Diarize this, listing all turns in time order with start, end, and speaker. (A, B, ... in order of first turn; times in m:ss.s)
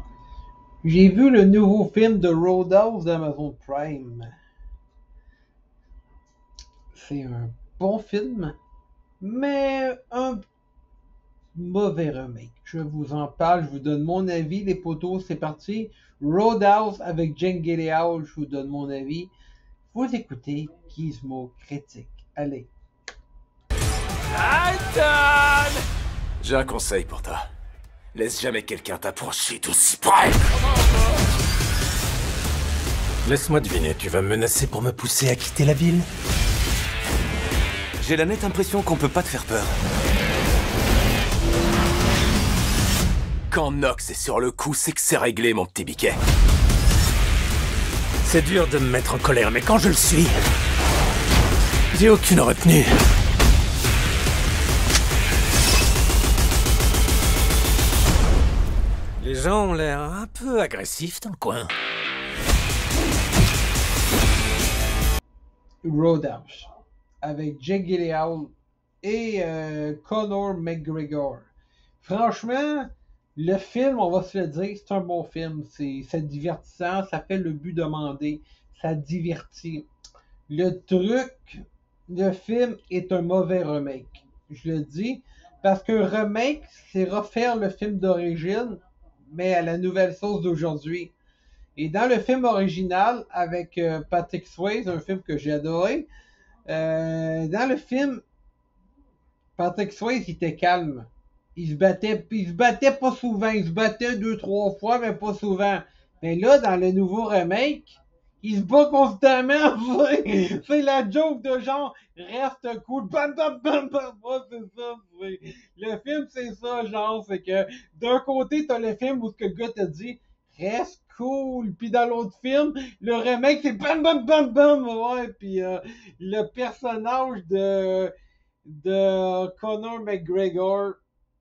0:00.8-0:04.3 A
0:06.9-0:08.6 A
0:09.2-0:10.4 A
0:11.6-0:19.3 A
0:19.9-0:22.7 A
0:24.4-0:25.8 B
0:26.4-0:27.5 B
0:28.1-0:30.5 B
0:33.2-0:36.1 C
0:38.0-0:39.7 B
0:43.5-0:46.2 B
0:48.2-0:50.4 C
0:51.9-0:53.0 C
0:59.2-1:01.7 C
1:05.8-1:06.7 A
1:07.2-1:08.5 A
1:09.0-1:19.9 A
1:20.5-1:31.1 A
1:31.8-1:36.1 A
1:36.7-1:38.2 A
1:39.6-2:08.1 A
2:08.6-2:11.0 A